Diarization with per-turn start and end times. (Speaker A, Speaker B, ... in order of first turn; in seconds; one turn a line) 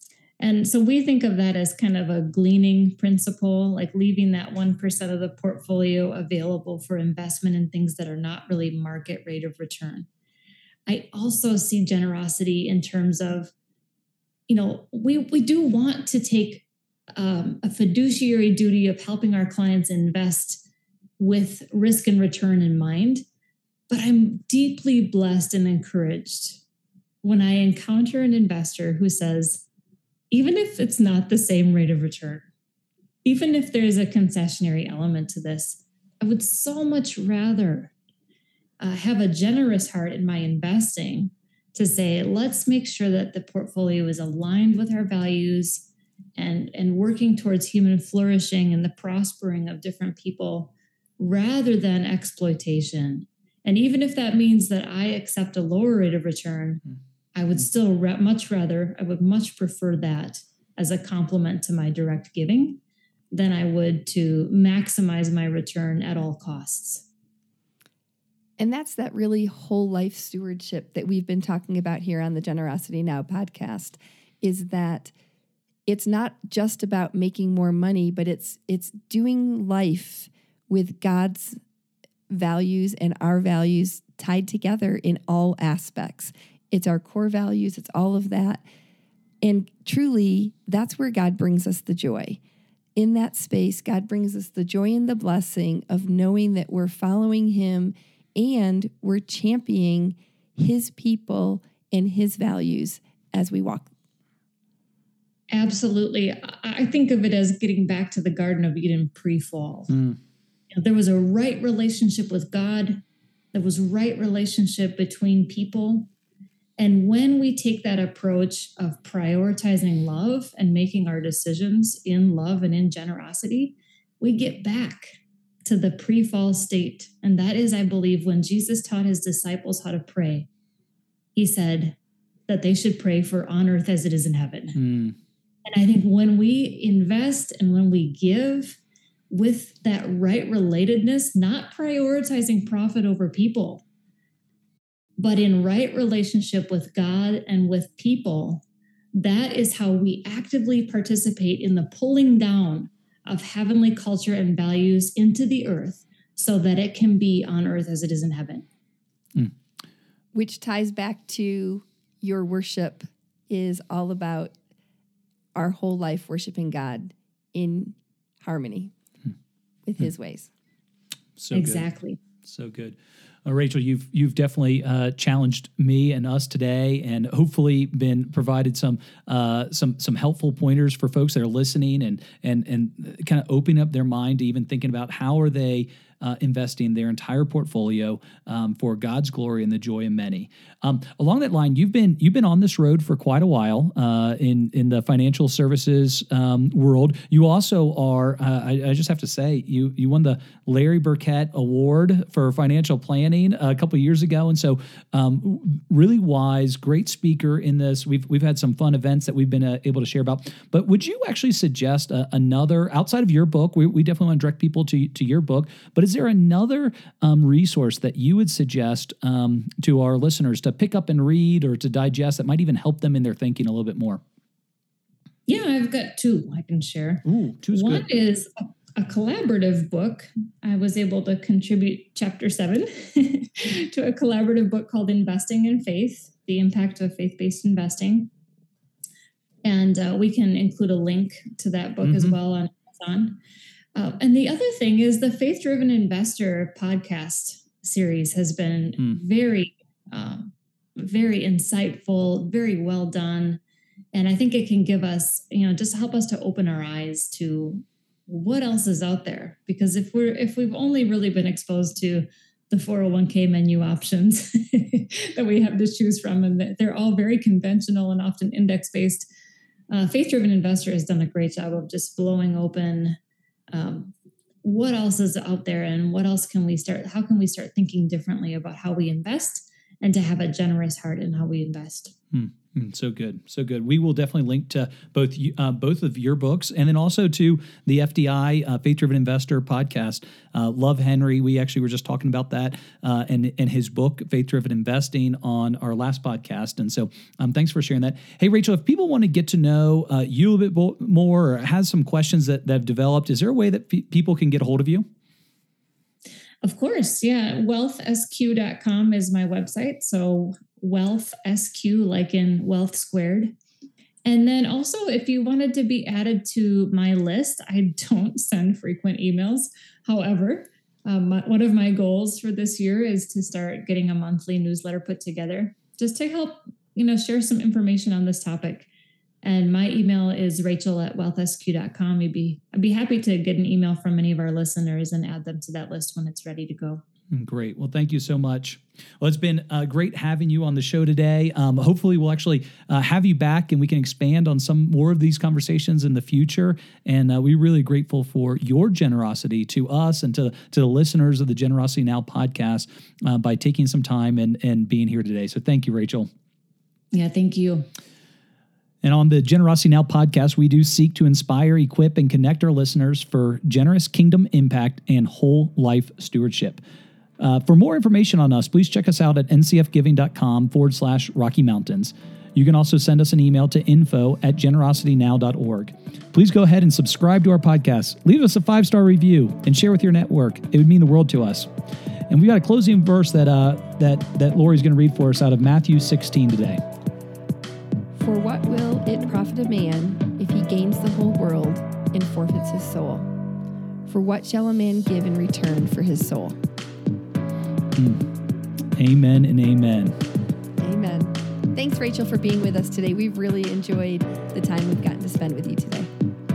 Speaker A: 0.4-10.1
Speaker A: 10.9-13.5
Speaker A: 14.5-16.6
Speaker A: 17.2-20.6
Speaker A: 21.2-23.2
Speaker A: 23.9-26.6
Speaker A: 27.2-29.6
Speaker A: 30.3-32.5
Speaker A: 33.2-37.9
Speaker A: 38.8-56.8
Speaker A: 57.4-62.8
Speaker A: 63.3-67.1
Speaker B: 68.6-75.1
Speaker B: 75.9-81.6
Speaker B: 82.3-88.6
Speaker B: 89.4-92.4
Speaker B: 93.0-103.9
Speaker A: 105.5-109.9
Speaker C: 109.9-110.2
Speaker A: 110.7-113.0
Speaker A: 113.5-116.1
Speaker A: 116.8-130.5
Speaker A: 131.4-132.0
Speaker A: 132.5-134.8
Speaker C: 134.8-135.2
Speaker A: 135.7-138.8
Speaker A: 139.3-143.8
Speaker A: 145.2-148.6
Speaker A: 149.2-158.7
Speaker B: 160.3-164.6
Speaker B: 165.6-168.9
Speaker B: 169.8-170.5
Speaker C: 171.4-171.9
Speaker A: 171.5-172.2
Speaker C: 172.4-224.2
Speaker A: 225.5-238.3
Speaker C: 227.2-228.1
Speaker A: 239.6-243.4
Speaker C: 242.0-242.3
Speaker A: 244.0-253.6
Speaker A: 254.1-269.3
Speaker A: 269.9-273.2
Speaker A: 273.7-282.1
Speaker C: 282.3-305.1
Speaker A: 306.6-313.6
Speaker A: 314.2-328.9
Speaker A: 329.4-337.0
Speaker C: 337.3-356.3
Speaker A: 357.1-357.9
Speaker C: 359.0-366.8
Speaker C: 367.4-381.7
Speaker C: 382.3-386.8
Speaker B: 388.1-393.3
Speaker B: 394.1-396.6
Speaker C: 397.9-398.3
Speaker C: 399.0-400.2
Speaker B: 400.8-406.1